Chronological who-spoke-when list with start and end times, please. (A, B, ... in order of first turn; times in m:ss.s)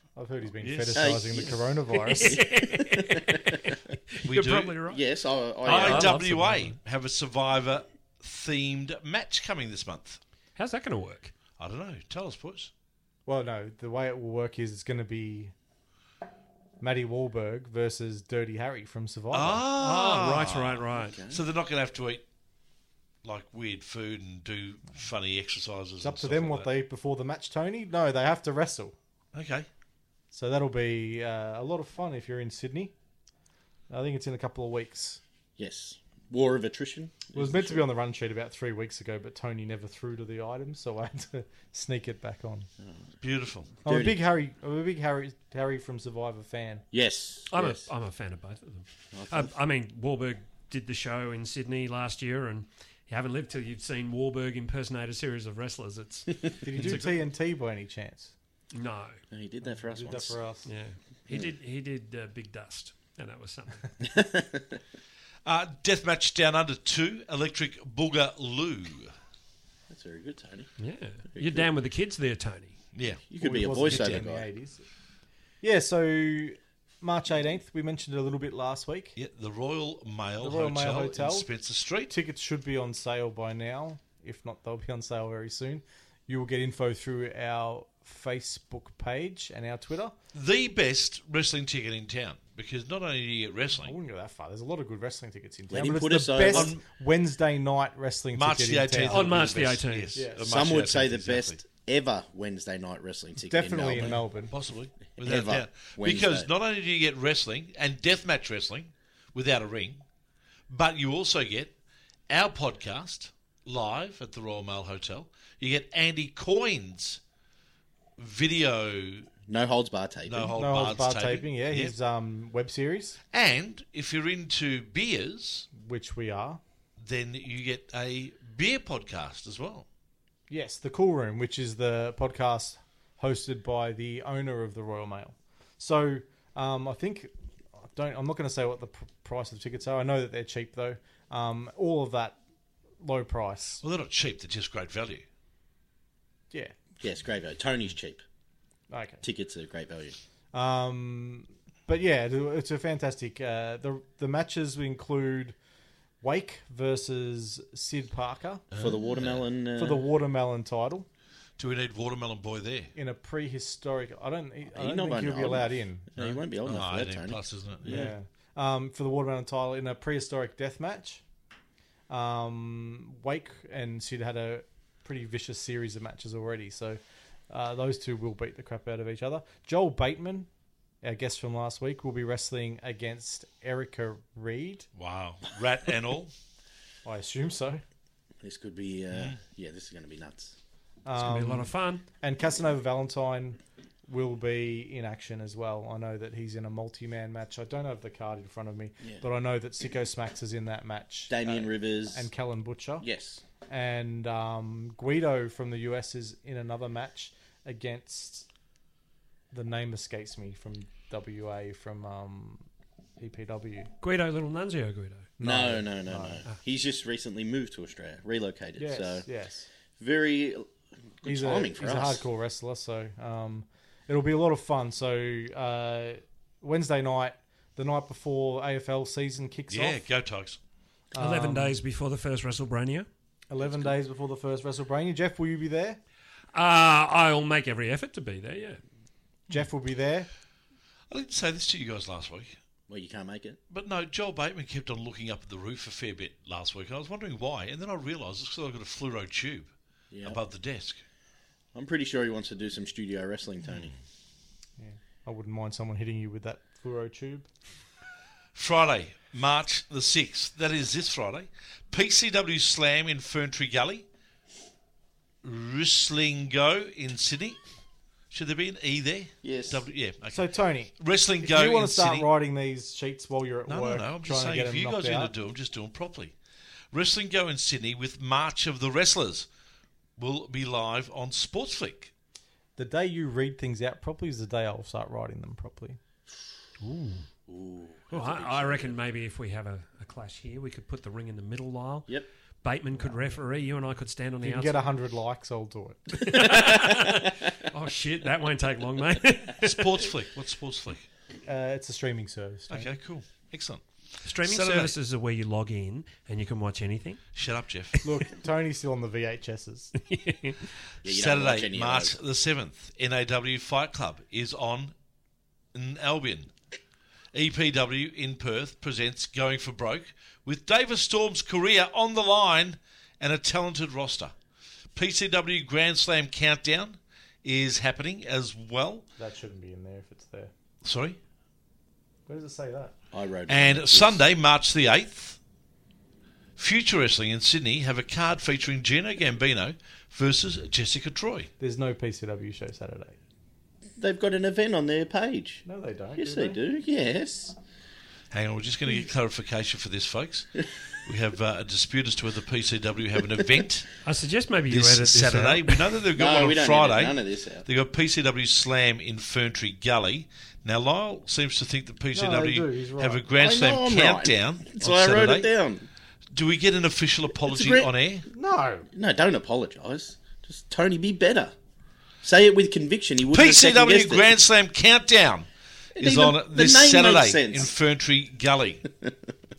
0:00.2-0:02.4 A
0:00.6-0:01.2 B
0:00.9-0:01.7 C
0:01.9-0:05.0 D
0:02.2-0:03.6 C
0:04.2-0:04.8 B
0:04.9-0:06.2 C
0:05.6-0:06.7 D
0:05.6-0:10.2 B
0:10.6-0:11.3 D
0:11.6-0:12.7 B
0:13.2-0:15.5 A
0:16.8-0:19.6 A
0:19.3-0:22.2 B
0:19.8-0:21.2 D
0:21.1-0:21.4 C
0:23.2-0:26.7 B
0:26.0-0:29.0 A
0:29.3-0:29.7 B
0:30.3-0:32.9 A
0:33.9-0:35.2 A
0:35.6-0:37.8 C
0:37.3-0:42.7 A
0:43.2-0:43.7 B
0:43.8-0:46.8 A
0:43.8-0:44.2 C
0:46.9-0:47.8 C
0:47.5-0:56.3 D
0:49.1-0:49.5 C
0:56.5-0:56.9 C
0:56.6-0:58.3 A
0:56.7-0:57.2 B
0:58.7-0:59.2 D
0:59.3-1:00.5 C
0:59.6-1:00.7 A
1:00.6-1:03.9 D
1:04.0-1:04.8 C
1:05.4-1:09.1 B
1:09.9-1:10.7 C
1:10.8-1:12.8 D
1:11.3-1:11.7 C
1:12.9-1:14.3 B
1:13.3-1:14.5 C
1:13.4-1:14.8 A
1:15.6-1:19.1 A
1:19.2-1:22.1 B
1:20.4-1:21.5 A
1:22.1-1:30.1 A
1:30.3-1:33.9 B
1:33.8-1:40.5 A
1:35.7-1:36.8 C
1:36.5-1:36.8 B
1:38.4-1:41.6 B
1:39.1-1:40.3 D
1:40.4-1:44.2 C
1:43.5-1:44.5 A
1:44.1-1:50.0 B
1:45.1-1:46.5 C
1:50.7-1:51.7 B
1:52.3-1:57.2 B
1:58.2-1:59.3 B
1:59.5-2:00.7 C
2:00.2-2:01.9 B
2:00.5-2:03.2 A
2:03.3-2:05.7 B
2:05.8-2:06.6 A
2:07.0-2:09.8 B
2:10.5-2:22.4 A
2:23.0-2:23.8 A
2:23.8-2:25.2 B
2:26.5-2:26.8 A
2:27.0-2:28.2 C
2:28.9-2:29.2 A
2:29.2-2:30.2 C
2:30.5-2:35.6 A
2:36.2-2:38.6 A
2:38.7-2:39.4 B
2:38.8-2:40.0 C
2:39.8-2:41.1 A
2:41.6-2:42.9 B
2:42.9-2:46.1 A
2:44.7-2:48.1 C
2:46.2-2:48.1 B
2:47.8-2:51.2 A
2:52.1-2:57.0 A
2:57.5-3:00.5 A
3:01.0-3:04.9 A
3:05.0-3:06.3 B
3:07.0-3:07.8 A
3:08.4-3:10.5 C
3:09.1-3:09.4 B
3:11.0-3:23.0 A
3:11.2-3:12.0 D
3:21.3-3:22.2 C
3:23.0-3:23.4 C
3:23.7-3:28.5 A
3:29.5-3:32.6 A
3:33.2-3:33.9 A
3:34.0-3:35.4 D
3:35.4-3:36.4 A
3:35.4-3:39.2 C
3:38.8-3:39.7 A
3:40.0-3:42.2 C
3:41.2-3:50.0 A
3:49.7-3:50.6 B
3:51.1-3:51.8 A
3:51.2-3:53.1 D
3:53.5-3:56.0 A
3:56.5-3:58.8 D
3:59.5-4:00.3 A
4:01.1-4:02.6 B
4:02.9-4:03.6 C
4:03.7-4:09.7 B
4:10.1-4:10.4 C
4:10.2-4:11.0 B
4:11.7-4:14.0 C
4:14.8-4:17.5 A
4:18.5-4:24.0 B
4:25.4-4:27.6 B
4:28.3-4:32.3 B
4:29.4-4:29.8 C
4:30.3-4:35.3 A
4:33.7-4:36.3 B
4:36.9-4:39.4 B
4:40.2-4:42.1 B
4:42.8-4:46.0 A
4:46.8-4:47.2 D
4:47.5-4:48.9 C
4:48.1-4:52.1 D
4:52.6-4:54.8 D
4:53.0-4:53.4 A
4:54.4-4:56.2 A
4:56.2-5:00.0 D
4:59.6-5:01.1 B
5:01.4-5:02.9 A
5:02.7-5:04.9 B
5:04.2-5:07.3 D
5:07.3-5:08.0 B
5:08.0-5:09.9 A
5:09.9-5:10.7 D
5:11.0-5:12.2 C
5:11.0-5:14.9 B
5:15.7-5:16.5 B
5:17.3-5:24.3 B
5:25.0-5:29.0 B
5:29.2-5:30.5 A
5:30.8-5:31.2 B
5:32.2-5:32.9 A
5:33.1-5:34.2 C
5:33.5-5:35.4 B
5:36.6-5:41.5 B
5:41.6-5:43.2 A
5:44.0-5:45.6 C
5:45.6-5:46.6 A
5:46.2-5:47.5 C
5:48.3-5:53.9 B
5:54.0-5:56.0 D
5:54.7-6:05.5 B
5:56.2-5:57.6 C
6:02.1-6:03.3 A
6:03.4-6:05.9 C
6:06.3-6:08.3 B
6:07.4-6:07.9 C
6:08.3-6:08.9 A
6:08.9-6:11.5 C
6:12.2-6:14.3 C
6:13.3-6:18.8 B
6:16.0-6:17.7 C